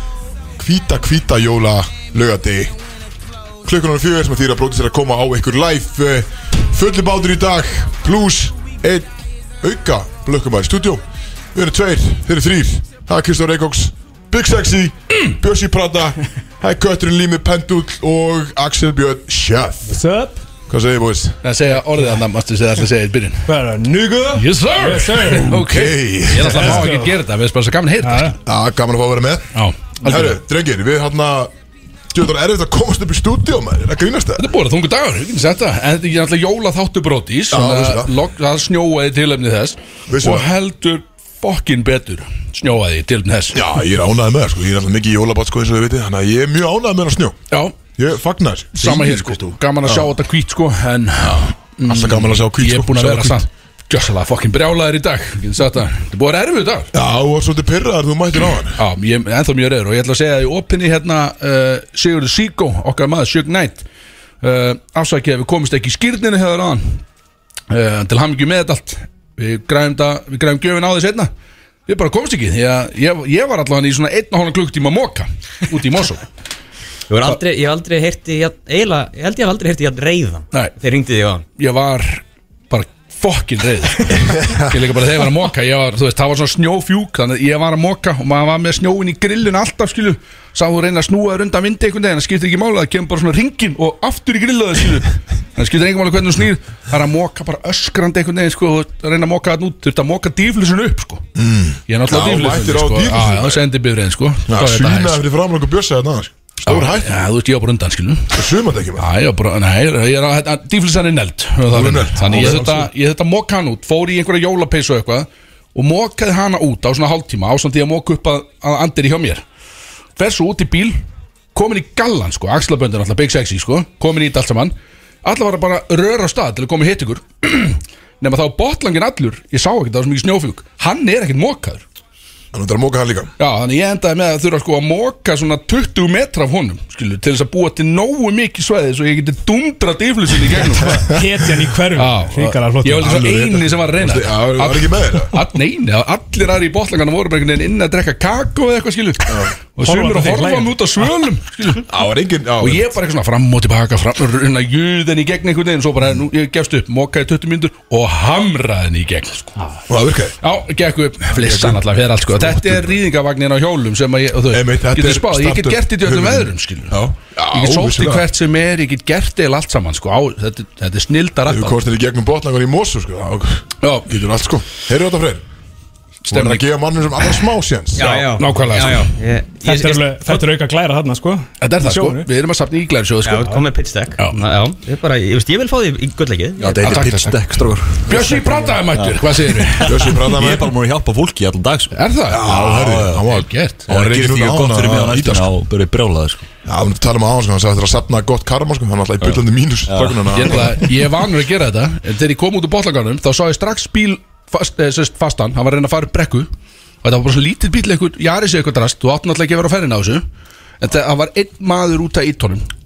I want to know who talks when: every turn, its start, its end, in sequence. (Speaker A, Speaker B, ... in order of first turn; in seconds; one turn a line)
Speaker A: 0.6-2.8
Speaker A: 3.6-11.0
Speaker A: 11.5-20.0
Speaker B: 19.9-20.4
Speaker A: 20.7-21.4
Speaker C: 21.4-23.5
Speaker B: 23.5-25.6
Speaker C: 24.4-28.4
Speaker A: 25.5-26.9
Speaker B: 26.4-27.1
Speaker B: 28.0-28.4
Speaker A: 28.4-31.5
Speaker C: 29.5-30.4
Speaker A: 32.1-34.5
Speaker C: 34.4-43.6
Speaker A: 37.5-38.1
Speaker A: 40.1-40.5
Speaker A: 43.5-47.4
Speaker C: 47.5-47.8
Speaker A: 48.0-50.1
Speaker C: 48.8-56.9
Speaker A: 51.2-53.5
Speaker A: 56.9-58.8
Speaker C: 58.8-63.8
Speaker C: 64.4-67.0
Speaker C: 67.7-71.3
Speaker C: 71.9-76.3
Speaker D: 77.1-81.5
Speaker C: 81.6-101.2
Speaker A: 101.4-103.6
Speaker C: 101.9-105.2
Speaker A: 104.5-107.2
Speaker C: 106.7-108.4
Speaker A: 108.3-109.1
Speaker C: 109.0-119.4
Speaker A: 111.7-112.9
Speaker D: 112.2-112.5
Speaker C: 120.2-121.0
Speaker C: 121.5-131.8
Speaker A: 132.5-133.3
Speaker C: 133.4-141.2
Speaker B: 140.7-143.7
Speaker C: 141.9-151.9
Speaker A: 143.1-145.4
Speaker A: 149.3-149.5
Speaker B: 149.8-151.0
Speaker A: 151.9-152.9
Speaker C: 152.6-159.5
Speaker A: 159.9-160.3
Speaker C: 160.4-171.8
Speaker A: 161.3-163.0
Speaker A: 164.5-168.3
Speaker A: 171.4-175.4
Speaker C: 173.8-174.1
Speaker A: 176.2-178.3
Speaker C: 176.3-176.7
Speaker D: 177.9-180.4
Speaker C: 178.0-179.1
Speaker B: 179.6-182.3
Speaker C: 181.6-183.6
Speaker D: 183.2-187.1
Speaker E: 186.6-188.1
Speaker C: 186.8-187.4
Speaker B: 188.1-188.8
Speaker C: 188.1-190.2
Speaker E: 188.9-193.2
Speaker A: 189.8-190.7
Speaker C: 191.9-192.5
Speaker A: 192.3-195.5
Speaker C: 193.2-193.8
Speaker E: 193.9-196.4
Speaker A: 196.6-200.9
Speaker E: 199.2-200.7
Speaker C: 200.3-206.5
Speaker C: 207.0-210.2
Speaker C: 210.8-212.7